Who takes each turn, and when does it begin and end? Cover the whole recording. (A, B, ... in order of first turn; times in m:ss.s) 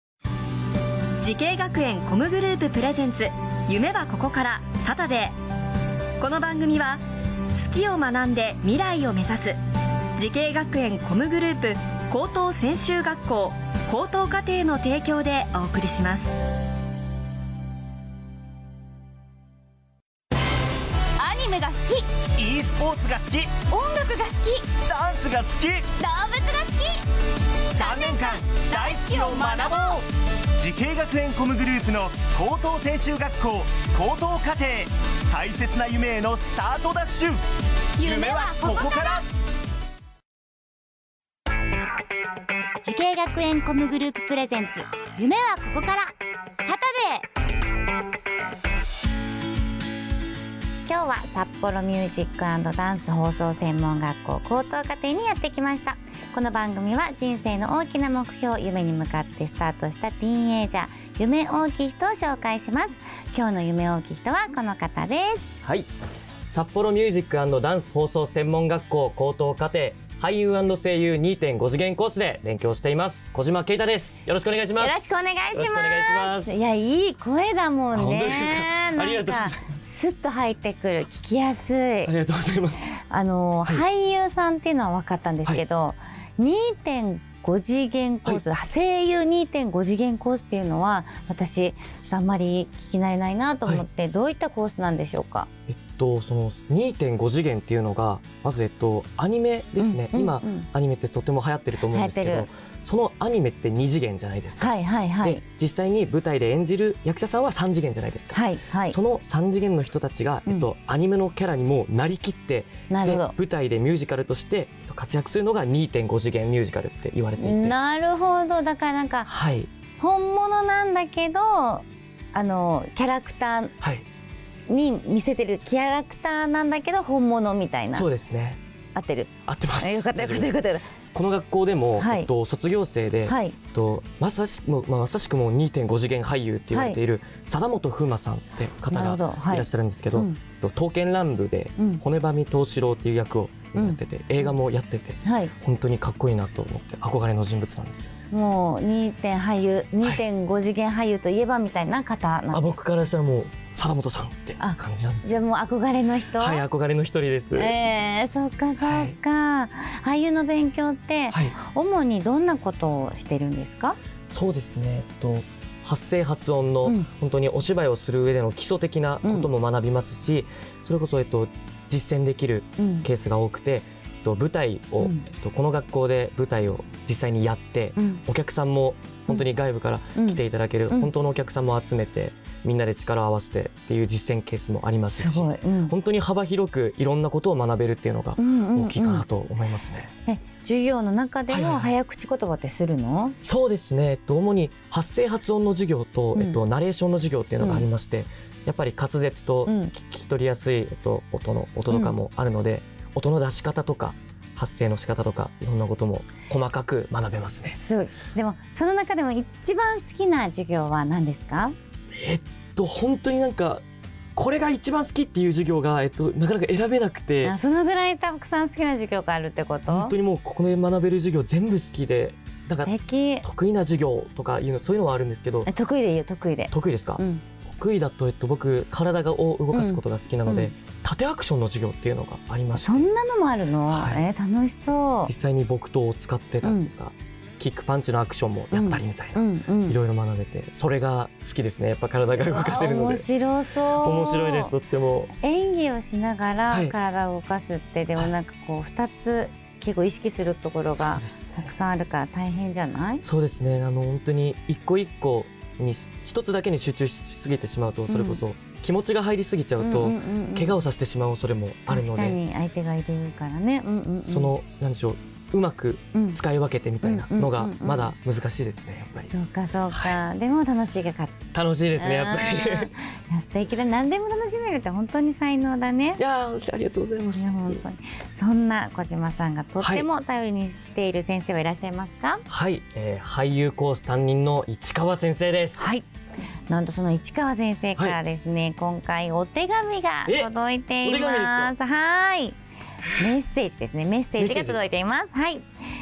0:01.2-0:05.4 A
0:06.2-0:09.6 A
0:10.2-0:16.4 A
0:21.2-0:22.1 B
0:22.4-0:23.6 C
0:23.7-0:24.7 B
0:24.8-0:25.9 C
0:26.0-0:27.0 B
0:27.7-0:30.1 C
0:27.8-0:29.9 B
0:30.6-0:37.4 C
0:38.0-0:39.3 C
0:38.0-0:39.1 B
0:42.8-0:47.2 D
0:50.9-1:05.6 D
1:05.6-1:05.9 E
1:06.5-1:15.0 E
1:14.8-1:22.1 D
1:15.5-1:16.6 E
1:17.9-1:19.7 E
1:22.0-1:22.9 E
1:23.0-1:35.5 D
1:35.7-1:57.8 E
1:39.8-1:40.7 D
1:41.9-1:42.5 D
1:44.6-1:45.4 D
1:48.3-1:49.0 D
1:52.9-1:53.3 D
1:57.4-1:59.3 D
1:59.3-1:59.7 E
2:00.0-2:03.8 D
2:03.8-2:04.1 E
2:04.7-2:08.1 D
2:07.9-2:08.6 E
2:09.0-2:10.9 D
2:09.5-2:10.6 E
2:11.1-2:28.1 E
2:12.0-2:12.3 D
2:13.3-2:13.6 D
2:16.7-2:17.0 D
2:18.9-2:20.4 D
2:23.8-2:24.5 D
2:25.2-2:25.5 D
2:28.3-2:32.7 D
2:32.5-2:35.4 E
2:34.6-2:36.6 D
2:36.4-2:37.8 E
2:37.6-2:44.0 D
2:38.8-2:39.2 E
2:44.3-3:10.1 E
2:49.2-2:49.5 D
2:52.8-2:53.1 D
2:55.0-2:55.2 D
2:58.0-2:58.2 D
3:00.2-3:01.1 D
3:05.1-3:05.9 D
3:08.4-3:09.3 D
3:10.3-3:13.4 D
3:11.5-3:11.9 E
3:13.4-3:27.8 E
3:17.6-3:17.9 D
3:19.7-3:19.9 D
3:21.9-3:22.2 D
3:27.7-3:31.7 D
3:32.1-3:33.8 E
3:34.4-3:37.6 E
3:37.4-3:40.2 D
3:39.9-3:45.7 E
3:42.8-3:43.4 D
3:45.6-3:47.4 D
3:46.7-3:53.1 E
3:49.7-3:50.7 D
3:52.8-3:55.3 D
3:53.9-3:54.2 E
3:55.2-4:03.3 E
3:56.6-3:56.9 D
3:58.7-4:00.0 D
4:02.4-4:04.8 D
4:04.0-4:05.3 E
4:05.4-4:13.2 D
4:06.7-4:07.0 E
4:10.9-4:11.7 E
4:13.2-4:22.4 E
4:18.1-4:18.4 D
4:19.8-4:20.8 D
4:21.9-4:24.5 D
4:24.2-4:29.3 E
4:27.0-4:28.1 D
4:29.3-4:31.4 D
4:31.5-4:33.0 E
4:32.0-4:36.2 D
4:36.2-4:37.8 E
4:37.4-4:42.4 D
4:39.8-4:40.1 E
4:42.5-4:45.9 E
4:45.8-4:46.1 D
4:46.7-4:52.6 D
4:51.0-4:51.7 E
4:53.2-4:55.7 D
4:54.4-4:54.8 E